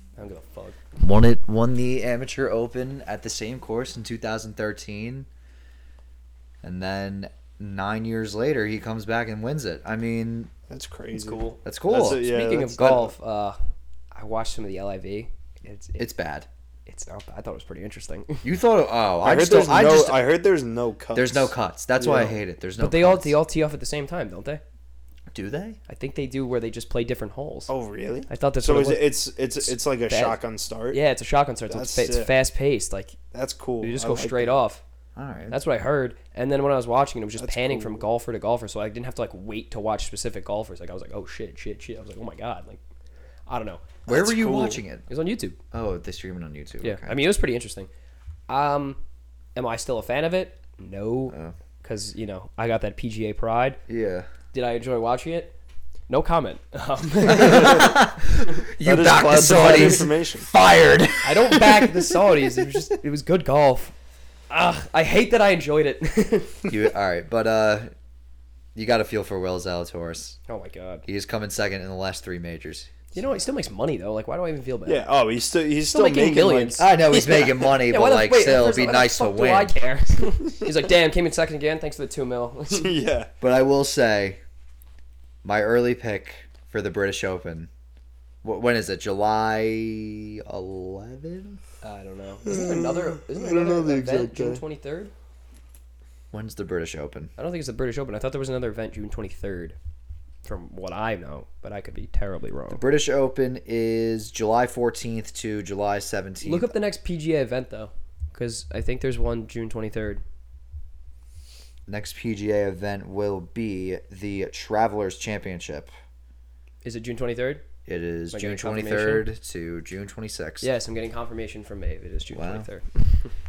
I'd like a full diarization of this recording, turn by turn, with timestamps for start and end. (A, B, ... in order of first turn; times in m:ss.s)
0:00.2-0:00.8 A
0:01.0-0:05.3 B
0:06.6-0:10.5 B
0:10.7-0:13.1 C
0:11.1-0:13.6 A
0:11.6-0:12.2 B
0:14.1-0:16.1 A
0:16.0-0:16.5 B
0:16.9-0:18.5 A
0:18.4-0:20.2 B
0:19.2-0:22.4 C
0:21.2-0:23.3 B
0:22.8-0:24.6 A
0:25.3-0:25.8 B
0:25.9-0:27.7 A
0:27.7-0:31.0 C
0:28.3-0:30.4 A
0:30.9-0:33.2 A
0:31.7-0:32.3 C
0:33.3-0:34.6 C
0:33.8-0:34.8 A
0:35.2-0:35.6 B
0:35.5-0:42.8 A
0:37.4-0:38.0 C
0:43.5-0:45.6 A
0:44.1-0:45.1 B
0:45.7-0:47.2 B
0:46.8-0:47.9 A
0:48.5-0:49.0 A
0:49.6-0:53.8 A
0:53.9-0:54.3 B
0:54.5-0:55.6 A
0:56.1-0:58.0 A
0:57.3-1:01.9 B
0:58.8-1:00.5 C
0:59.5-0:59.8 A
1:01.2-1:04.0 A
1:04.5-1:06.7 A
1:06.7-1:07.9 B
1:08.8-1:10.4 B
1:10.5-1:11.0 A
1:11.1-1:12.9 B
1:13.1-1:15.0 A
1:14.9-1:16.8 C
1:15.9-1:22.9 A
1:16.8-1:19.7 B
1:22.7-1:23.3 C
1:23.4-1:24.4 B
1:25.4-1:27.7 B
1:28.4-1:31.6 B
1:31.8-1:35.1 A
1:32.5-1:34.6 C
1:36.3-1:37.3 B
1:37.4-1:39.8 A
1:40.4-1:42.8 A
1:42.7-1:46.7 B
1:46.4-1:50.2 A
1:51.9-1:55.9 B
1:56.8-1:57.6 A
1:57.9-2:00.7 B
1:58.3-1:59.3 A
2:00.6-2:03.3 A
2:02.3-2:02.7 B